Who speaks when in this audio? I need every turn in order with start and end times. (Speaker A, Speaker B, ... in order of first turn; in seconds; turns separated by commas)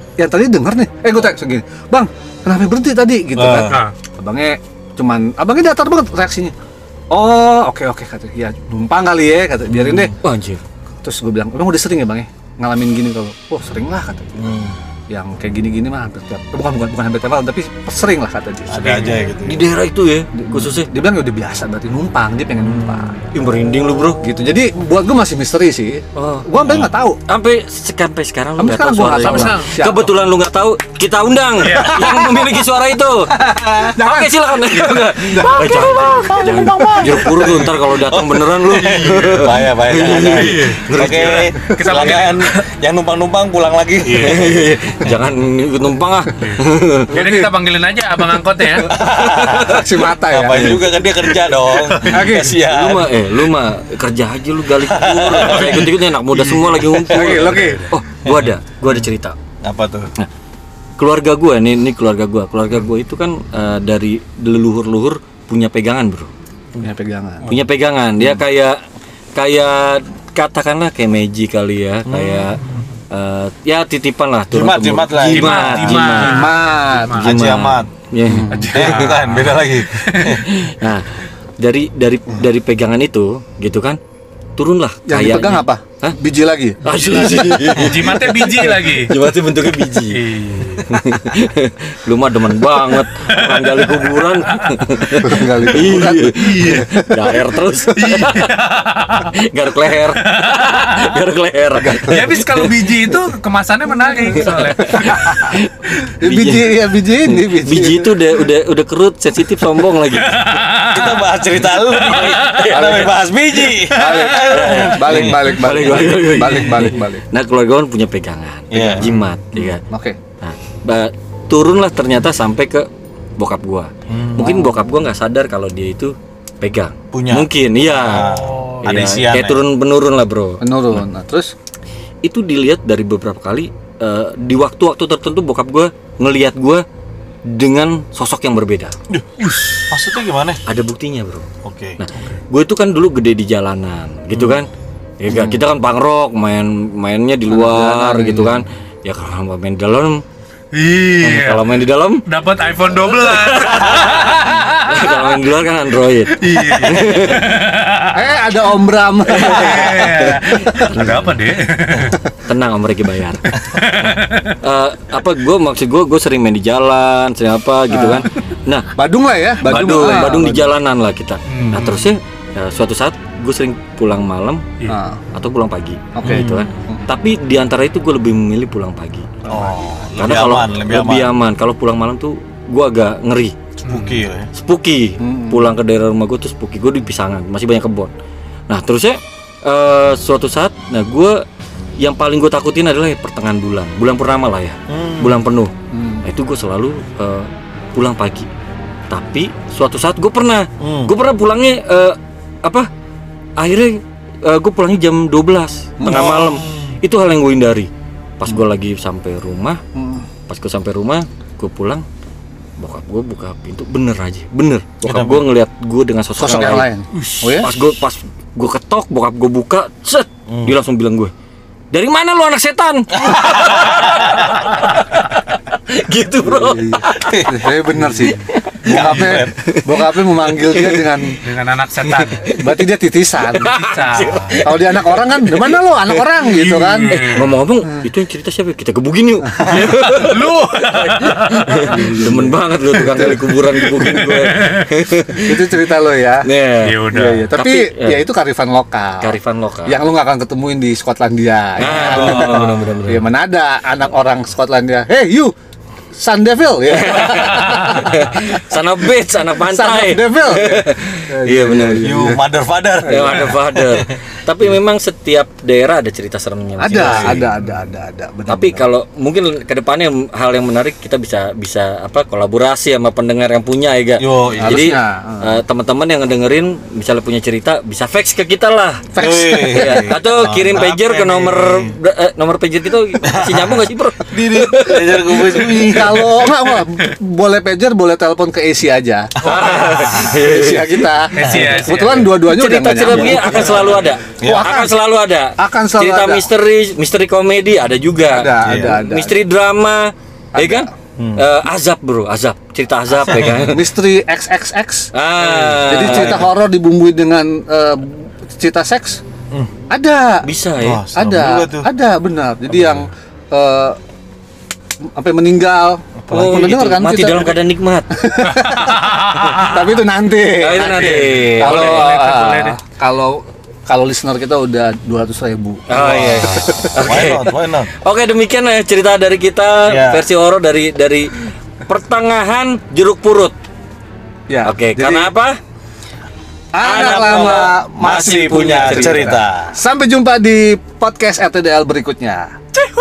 Speaker A: 0.2-6.5, Speaker B: 3.3-3.8, Speaker A: 7.1-10.1, Speaker B: 9.7-10.2, Speaker C: 10.2-10.6, Speaker A: 11.0-14.4, Speaker B: 14.4-14.8, Speaker A: 15.1-19.2, Speaker B: 18.7-19.7, Speaker C: 19.4-20.9, Speaker A: 20.4-23.2, Speaker B: 22.7-23.0, Speaker C: 23.3-24.2, Speaker A: 24.2-27.2, Speaker C: 26.2-26.5, Speaker B: 26.6-26.9, Speaker C: 27.3-41.5, Speaker A: 28.6-30.2, Speaker D: 29.2-29.8, Speaker D: 31.6-32.0, Speaker A: 31.9-32.6, Speaker A: 33.4-37.2, Speaker B: 35.6-44.9, Speaker D: 40.1-40.8, Speaker D: 41.6-42.6, Speaker D: 44.0-44.5, Speaker C: 44.2-47.1, Speaker D: 46.4-48.9, Speaker A: 47.1-47.6, Speaker B: 48.9-53.5, Speaker C: 49.0-49.8, Speaker A: 49.5-50.8, Speaker D: 51.8-52.2, Speaker A: 52.0-52.6, Speaker C: 52.6-59.4, Speaker B: 54.9-57.5, Speaker D: 56.6-57.9, Speaker A: 57.1-57.9, Speaker B: 58.2-58.5, Speaker B: 59.6-60.1, Speaker C: 61.0-66.3, Speaker A: 66.8-67.5, Speaker C: 67.5-68.8, Speaker C: 69.3-72.6, Speaker B: 72.1-72.6, Speaker C: 73.1-76.5, Speaker B: 74.5-76.3, Speaker D: 75.2-77.5, Speaker A: 76.2-77.3, Speaker B: 77.1-77.9, Speaker C: 77.2-78.5, Speaker A: 78.3-78.8, Speaker D: 78.5-80.5, Speaker B: 78.7-80.5, Speaker C: 80.6-84.0, Speaker C: 84.6-86.2, Speaker A: 85.1-86.8, Speaker C: 86.8-90.2, Speaker D: 86.9-89.2, Speaker D: 90.1-90.9, Speaker C: 90.9-98.5, Speaker D: 92.7-95.0, Speaker A: 95.2-98.2, Speaker D: 95.9-96.8, Speaker D: 97.9-99.3, Speaker C: 99.3-102.7, Speaker D: 100.2-101.1, Speaker A: 101.9-102.2, Speaker D: 101.9-105.5, Speaker C: 104.4-110.6, Speaker A: 104.8-105.6, Speaker A: 106.2-108.2, Speaker D: 110.3-111.2, Speaker B: 110.8-115.5, Speaker C: 112.0-113.2, Speaker A: 113.9-117.2, Speaker C: 114.5-119.8, Speaker B: 118.7-119.6, Speaker A: 119.9-120.2, Speaker C: 120.4-130.7, Speaker B: 124.1-124.6, Speaker A: 124.4-124.8, Speaker B: 127.1-129.7, Speaker D: 128.2-128.9, Speaker A: 130.6-131.5, Speaker C: 132.2-136.8, Speaker C: 137.4-138.9, Speaker B: 139.1-140.6, Speaker C: 140.7-141.5, Speaker B: 141.6-142.0, Speaker C: 142.0-144.7, Speaker C: 145.2-150.2, Speaker A: 147.5-148.6, Speaker D: 150.7-155.4, Speaker C: 151.2-152.2, Speaker C: 153.3-157.5, Speaker D: 156.3-158.5, Speaker A: 158.1-160.4, Speaker D: 159.3-162.2, Speaker C: 159.5-161.4, Speaker C: 162.4-163.6, Speaker D: 163.5-164.6, Speaker C: 164.6-168.9, Speaker A: 167.9-168.3, Speaker A: 168.9-170.7, Speaker C: 169.6-174.6, Speaker D: 171.5-172.1, Speaker A: 174.9-175.2, Speaker C: 175.3-179.3, Speaker A: 176.2-177.1, Speaker B: 176.2-176.7, Speaker B: 179.5-181.3, Speaker C: 180.2-183.6, Speaker D: 183.8-184.2, Speaker B: 183.8-184.5, Speaker C: 184.5-188.1, Speaker A: 185.2-185.8, Speaker C: 188.7-191.4, Speaker C: 192.0-195.7, Speaker B: 194.9-195.4, Speaker A: 195.9-196.2, Speaker C: 196.2-198.5, Speaker C: 199.1-202.9, Speaker B: 200.8-201.1, Speaker C: 203.6-209.8, Speaker A: 206.0-206.3, Speaker B: 206.1-207.0, Speaker A: 209.9-210.3, Speaker C: 210.5-212.1, Speaker C: 212.8-216.9, Speaker B: 215.1-215.5, Speaker A: 216.4-217.7, Speaker C: 217.4-221.3, Speaker B: 220.5-220.8, Speaker C: 221.9-227.5, Speaker B: 223.2-224.1, Speaker A: 226.4-231.4, Speaker B: 227.1-227.6, Speaker D: 228.0-228.3, Speaker C: 228.3-229.1, Speaker B: 228.8-229.6, Speaker C: 229.7-231.1, Speaker D: 231.4-232.6, Speaker A: 232.2-233.7, Speaker C: 233.5-235.7, Speaker D: 233.6-234.6, Speaker A: 234.6-237.2, Speaker D: 236.4-237.6, Speaker C: 237.1-245.6, Speaker D: 239.7-242.2, Speaker A: 241.9-242.5, Speaker A: 243.2-243.4, Speaker D: 243.8-244.9, Speaker A: 245.4-246.5, Speaker C: 246.4-247.0, Speaker D: 246.8-247.5, Speaker A: 247.1-255.5, Speaker C: 247.6-248.2, Speaker C: 249.2-250.0, Speaker C: 251.8-253.3, Speaker B: 252.1-252.5, Speaker A: 256.1-258.2, Speaker C: 256.9-262.1, Speaker A: 259.6-262.4, Speaker B: 262.0-264.1, Speaker C: 263.1-267.4, Speaker A: 266.8-268.9, Speaker B: 266.9-267.5, Speaker C: 268.5-279.1, Speaker B: 274.2-274.9, Speaker A: 274.6-275.6, Speaker A: 279.1-280.1, Speaker B: 279.2-281.9, Speaker C: 279.7-285.5, Speaker B: 283.2-286.5, Speaker A: 285.4-293.8, Speaker B: 289.4-290.3, Speaker C: 289.4-291.2, Speaker D: 291.3-292.5, Speaker B: 291.4-291.8, Speaker C: 292.4-303.9, Speaker B: 293.1-294.6, Speaker A: 294.4-294.9, Speaker A: 295.6-296.5, Speaker A: 298.3-299.4, Speaker B: 298.6-299.0, Speaker A: 300.6-300.9, Speaker B: 301.2-301.4, Speaker B: 303.3-303.6, Speaker A: 303.5-305.1, Speaker C: 305.1-306.5, Speaker B: 305.5-306.5, Speaker A: 305.8-309.2, Speaker A: 309.9-310.5, Speaker C: 310.4-311.0, Speaker B: 310.8-311.9, Speaker A: 311.1-314.0, Speaker A: 315.1-317.6, Speaker C: 316.3-318.3, Speaker A: 318.2-325.9, Speaker D: 318.4-319.9, Speaker C: 320.6-322.2, Speaker D: 320.8-322.8, Speaker C: 325.9-333.6, Speaker B: 325.9-327.9, Speaker A: 326.5-326.9, Speaker B: 329.9-330.2, Speaker A: 334.5-335.3, Speaker C: 334.6-335.6, Speaker A: 336.7-339.2, Speaker C: 336.8-339.4, Speaker B: 336.9-339.8, Speaker A: 339.7-342.5